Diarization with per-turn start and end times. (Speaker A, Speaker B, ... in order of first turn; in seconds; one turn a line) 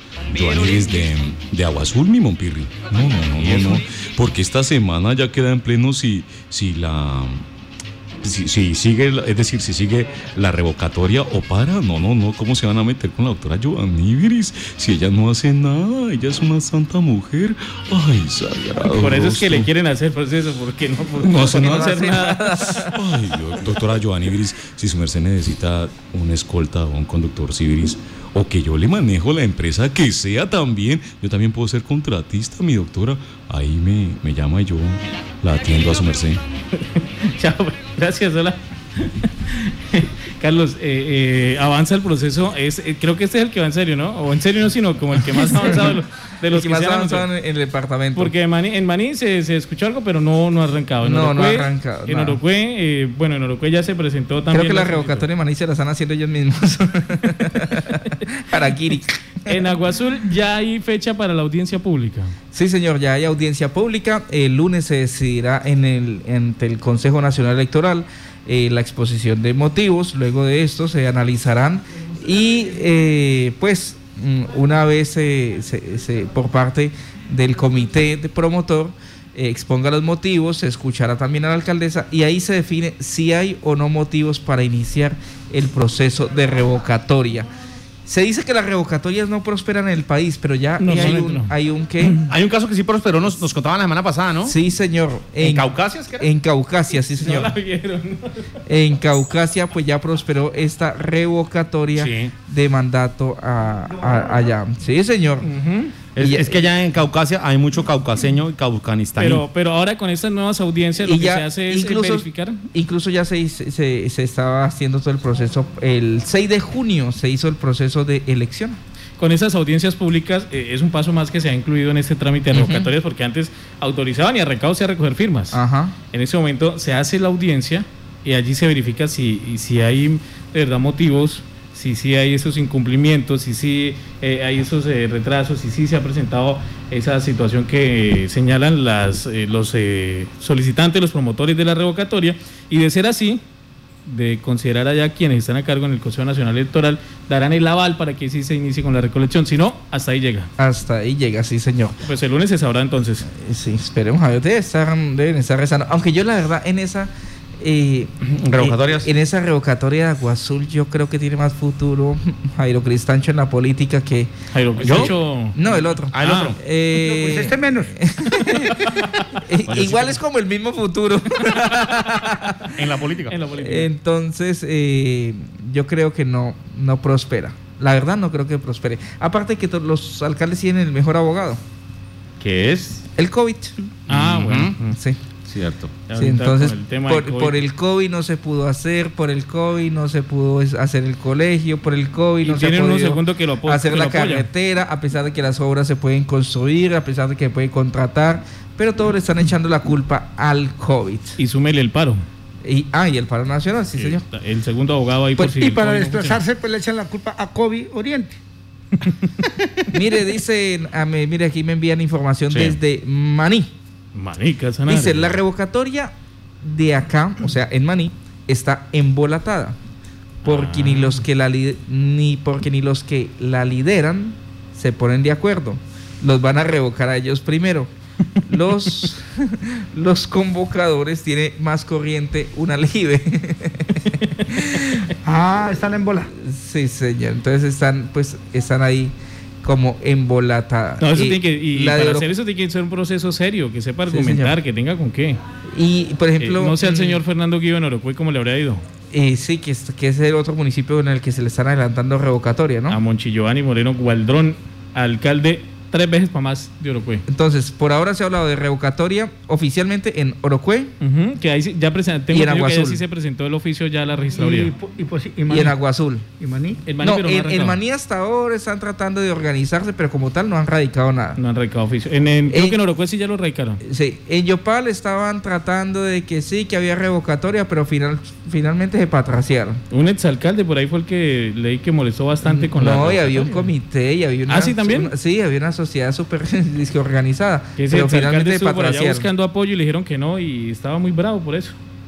Speaker A: 0.3-7.4
Speaker B: 3.4-3.8
Speaker A: 8.2-19.7
Speaker B: 18.9-22.9
Speaker A: 21.2-22.2
Speaker C: 21.3-23.0
Speaker A: 22.9-36.4
Speaker B: 36.8-47.3
Speaker C: 45.2-48.3
Speaker B: 48.1-55.2
Speaker C: 51.0-52.4
Speaker C: 54.5-59.6
Speaker B: 59.5-62.3
Speaker C: 62.5-87.5
Speaker C: 88.0-92.2
Speaker B: 90.8-91.5
Speaker D: 92.3-94.5
Speaker C: 94.4-97.5
Speaker D: 95.4-96.3
Speaker B: 97.0-98.4
Speaker C: 98.7-105.5
Speaker D: 102.0-102.3
Speaker B: 105.4-106.0
Speaker D: 106.1-109.4
Speaker C: 106.2-106.6
Speaker B: 109.2-112.6
Speaker C: 111.0-118.8
Speaker B: 119.2-125.6
Speaker C: 122.5-122.9
Speaker C: 125.5-126.0
Speaker B: 126.1-143.4
Speaker B: 144.1-150.5
Speaker C: 150.6-152.0
Speaker B: 152.0-153.3
Speaker C: 153.3-164.3
Speaker D: 158.2-159.1
Speaker B: 164.5-166.6
Speaker D: 164.8-165.1
Speaker C: 164.9-172.9
Speaker D: 166.1-166.6
Speaker E: 166.9-167.9
Speaker D: 169.7-170.2
Speaker D: 172.8-173.3
Speaker B: 173.3-173.9
Speaker C: 173.5-181.6
Speaker D: 182.4-183.0
Speaker C: 183.2-183.7
Speaker B: 184.1-185.0
Speaker D: 184.2-184.7
Speaker C: 184.9-185.2
Speaker D: 185.5-185.9
Speaker B: 186.1-187.6
Speaker C: 186.1-201.4
Speaker B: 192.4-194.5
Speaker B: 201.4-202.2
Speaker C: 202.6-204.2
Speaker B: 203.9-206.4
Speaker E: 205.5-208.4
Speaker B: 209.0-209.4
Speaker C: 209.9-213.7
Speaker D: 212.5-212.8
Speaker B: 214.1-215.3
Speaker C: 214.9-219.8
Speaker B: 220.4-221.2
Speaker C: 220.4-227.9
Speaker C: 228.5-235.0
Speaker B: 234.3-235.0
Speaker E: 235.2-236.3
Speaker C: 236.3-242.3
Speaker B: 241.0-245.4
Speaker C: 244.1-244.6
Speaker C: 245.7-247.2
Speaker B: 246.4-248.8
Speaker C: 249.1-253.0
Speaker B: 252.9-257.2
Speaker C: 257.3-260.9
Speaker B: 261.0-264.7
Speaker C: 262.3-263.0
Speaker E: 264.4-265.8
Speaker C: 265.5-266.2
Speaker E: 266.4-266.8
Speaker B: 266.8-267.8
Speaker C: 267.0-271.4
Speaker B: 271.4-273.8
Speaker C: 272.5-272.8
Speaker C: 273.8-279.8
Speaker B: 279.9-283.7
Speaker C: 282.4-289.3
Speaker B: 284.5-285.1
Speaker B: 287.8-291.8